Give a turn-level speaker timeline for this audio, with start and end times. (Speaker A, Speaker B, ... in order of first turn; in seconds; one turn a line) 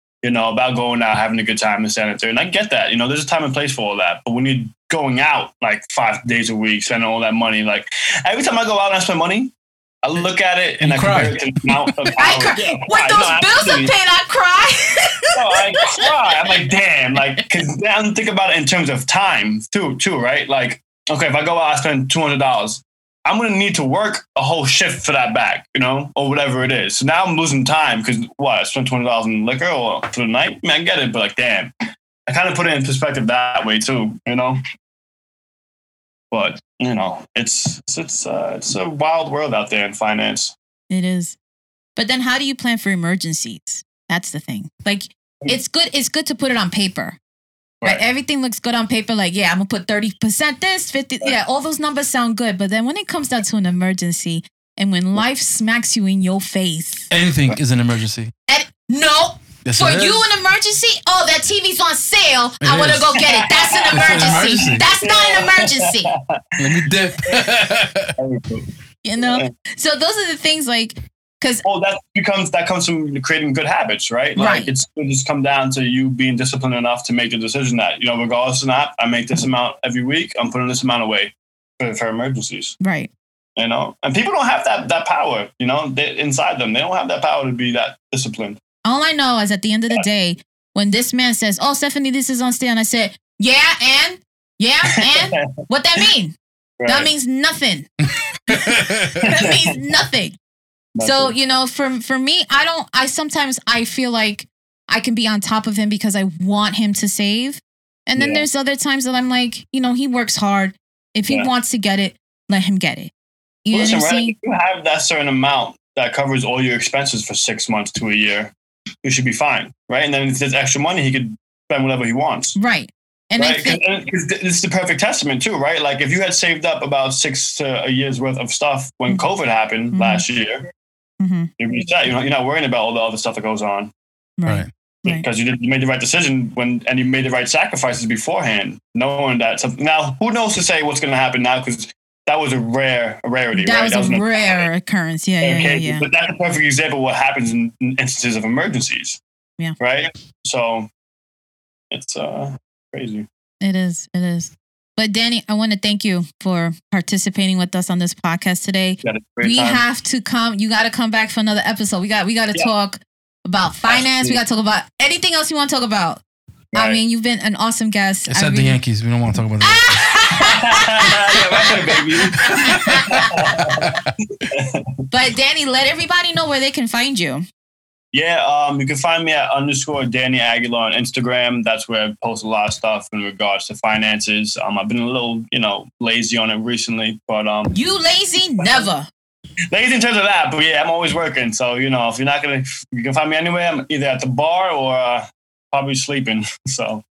Speaker A: 0.2-9.5
Speaker A: 10.0-13.9
Speaker B: 10.8-11.9
Speaker C: 12.2-16.6
Speaker A: 15.3-31.7
Speaker A: 32.3-34.6
Speaker A: 36.3-40.5
Speaker C: 40.9-41.4
Speaker C: 42.0-47.2
Speaker C: 47.8-57.1
Speaker B: 57.1-58.3
Speaker C: 58.5-66.1
Speaker B: 59.6-60.2
Speaker B: 62.6-63.1
Speaker A: 63.2-67.5
Speaker B: 63.9-64.8
Speaker B: 66.6-68.1
Speaker A: 68.2-68.7
Speaker C: 69.0-71.6
Speaker A: 69.2-69.5
Speaker A: 71.6-82.8
Speaker C: 74.3-74.7
Speaker C: 82.8-83.1
Speaker A: 83.6-88.6
Speaker C: 88.8-97.9
Speaker A: 94.9-95.6
Speaker A: 96.8-97.1
Speaker C: 98.5-100.4
Speaker B: 98.5-99.2
Speaker A: 99.2-99.6
Speaker A: 100.9-101.3
Speaker C: 101.0-113.1
Speaker A: 108.2-108.4
Speaker C: 113.6-114.3
Speaker A: 113.7-118.5
Speaker A: 119.0-122.6
Speaker C: 122.5-123.8
Speaker A: 123.4-130.7
Speaker C: 129.9-130.2
Speaker C: 131.2-131.5
Speaker A: 131.6-133.9
Speaker C: 134.4-135.2
Speaker A: 135.1-144.7
Speaker C: 143.5-146.1
Speaker A: 145.4-149.2
Speaker A: 149.8-150.9
Speaker A: 151.9-153.2
Speaker C: 153.6-166.2
Speaker A: 159.0-159.8
Speaker A: 163.9-164.4
Speaker A: 166.7-167.0
Speaker C: 166.7-168.8
Speaker B: 168.3-170.2
Speaker C: 169.6-171.7
Speaker A: 170.4-172.7
Speaker C: 172.3-173.8
Speaker B: 172.5-173.2
Speaker A: 173.3-174.9
Speaker B: 173.8-174.1
Speaker C: 175.1-177.4
Speaker A: 178.1-187.7
Speaker C: 187.7-189.1
Speaker A: 189.7-197.0